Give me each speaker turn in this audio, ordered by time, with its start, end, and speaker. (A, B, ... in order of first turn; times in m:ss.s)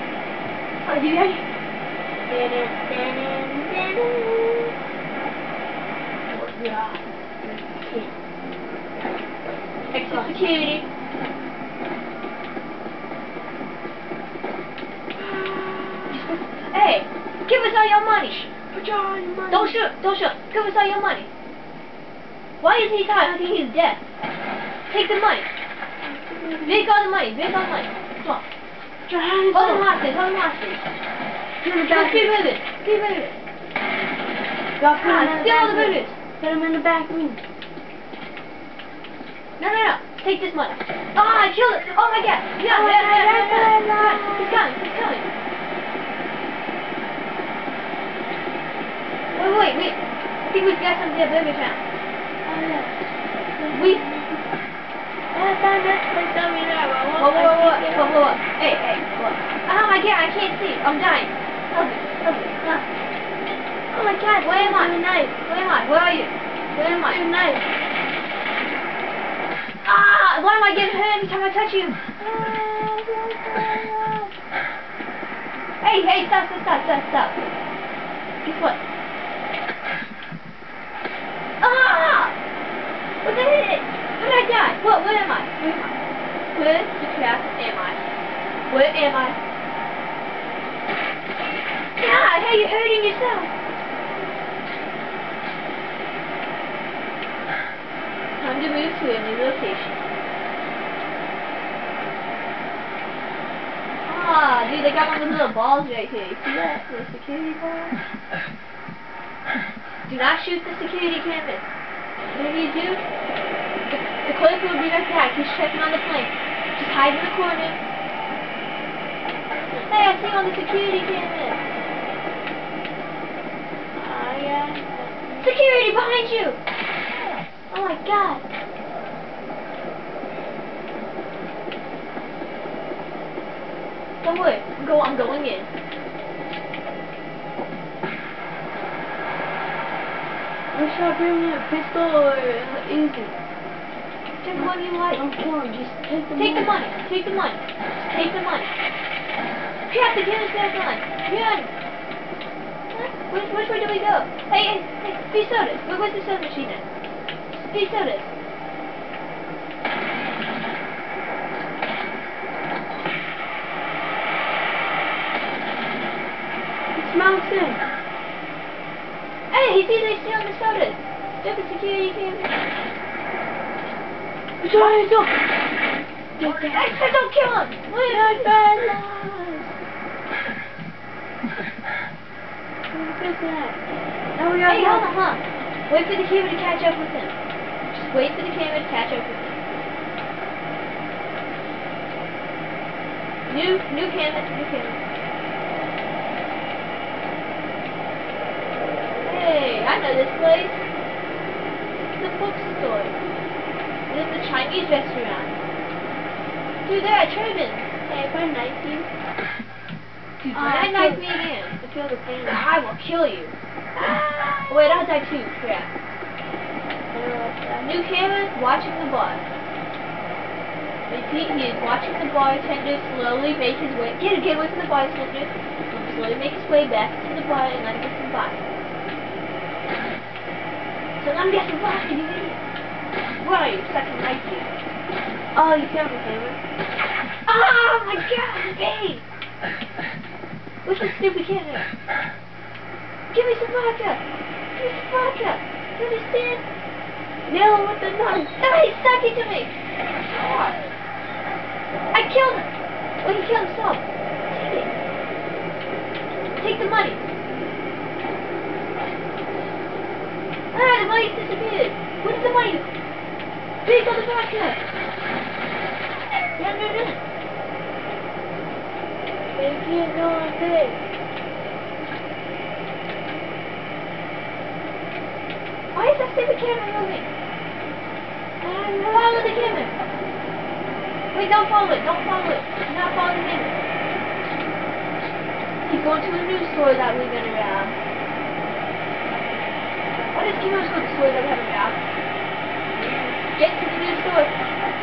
0:00.8-0:01.4 A
0:02.3-0:04.8 B
0:06.3-0:07.0 A
0:07.4-0:08.1 B
0:09.9-0:10.9 A
0:10.0-0:10.4 B
0:15.2-0:16.3 B
0:16.1-0:18.5 A
0:18.7-0:19.8 B
0:19.5-0:21.3 A
0:22.6-0:24.0 A
0:24.9-0:25.5 A
0:26.0-0:26.9 B
0:26.7-0:28.4 A
0:29.1-0:29.9 B
0:29.5-0:30.8 A
0:31.6-0:33.1 B
0:31.9-0:33.3 A
0:34.8-0:37.4 B
0:35.0-0:36.2 A
0:39.6-0:45.3 A
0:41.9-0:44.6 B
0:49.4-0:51.8 A
0:52.4-0:53.0 B
0:53.6-0:54.4 B
0:53.7-0:54.0 A
0:55.3-0:58.3 B
0:57.2-1:02.9 A
1:03.9-1:05.4 B
1:04.4-1:07.3 A
1:06.7-1:07.6 B
1:09.8-1:12.3 A
1:12.2-1:14.3 B
1:15.8-1:17.4 A
1:18.4-1:18.8 A
1:21.6-1:22.4 A
1:23.2-1:26.0 A
1:26.5-1:28.0 A
1:28.7-1:29.4 A
1:32.0-1:33.5 A
1:38.4-1:40.0 A
1:44.1-1:48.0 A
1:50.1-1:51.6 A
1:52.3-1:53.0 A
1:53.9-1:57.8 A
1:59.8-2:01.6 A
2:03.9-2:05.6 B
2:05.4-2:06.6 A
2:07.7-2:08.4 A
2:14.2-2:15.7 A
2:20.7-2:23.4 B
2:24.4-2:25.2 A
2:25.1-2:26.8 B
2:26.4-2:28.7 A
2:29.9-2:31.7 A
2:32.9-2:36.8 A
2:37.5-2:38.3 A
2:46.9-2:47.8 B
2:49.5-2:52.5 A
2:54.6-2:55.4 B
2:56.4-2:56.9 B
2:56.4-2:58.5 A
2:58.0-2:59.7 B
3:02.9-3:03.8 B
3:04.4-3:05.1 B
3:04.7-3:07.3 A
3:07.9-3:09.6 A
3:13.5-3:15.0 A
3:19.2-3:20.8 A
3:22.1-3:23.2 A
3:24.1-3:25.6 A
3:26.8-3:27.9 A
3:28.1-3:29.1 B
3:30.4-3:32.6 B
3:30.5-3:31.8 A
3:32.5-3:33.6 A
3:34.0-3:35.1 B
3:34.7-3:35.9 A
3:37.1-3:37.9 B
3:37.8-3:39.4 A
3:41.1-3:48.6 A
3:51.2-3:52.6 A
3:53.4-3:54.7 A
3:55.5-3:56.6 B
3:57.5-3:59.2 A
4:00.8-4:01.9 A
4:03.3-4:04.2 A
4:04.8-4:06.6 A
4:07.5-4:08.5 B
4:08.6-4:09.7 A
4:10.2-4:10.9 A
4:12.1-4:12.7 A
4:13.2-4:15.0 A
4:16.6-4:17.2 A
4:20.7-4:22.9 A
4:23.8-4:24.8 A
4:26.6-4:27.2 A
4:29.5-4:31.0 B
4:35.9-4:37.3 A
4:38.6-4:39.9 B
4:39.1-4:40.0 A
4:41.3-4:43.9 A
4:45.9-4:48.0 A
4:50.3-4:52.0 A
4:52.9-4:53.4 B
4:53.5-4:54.5 A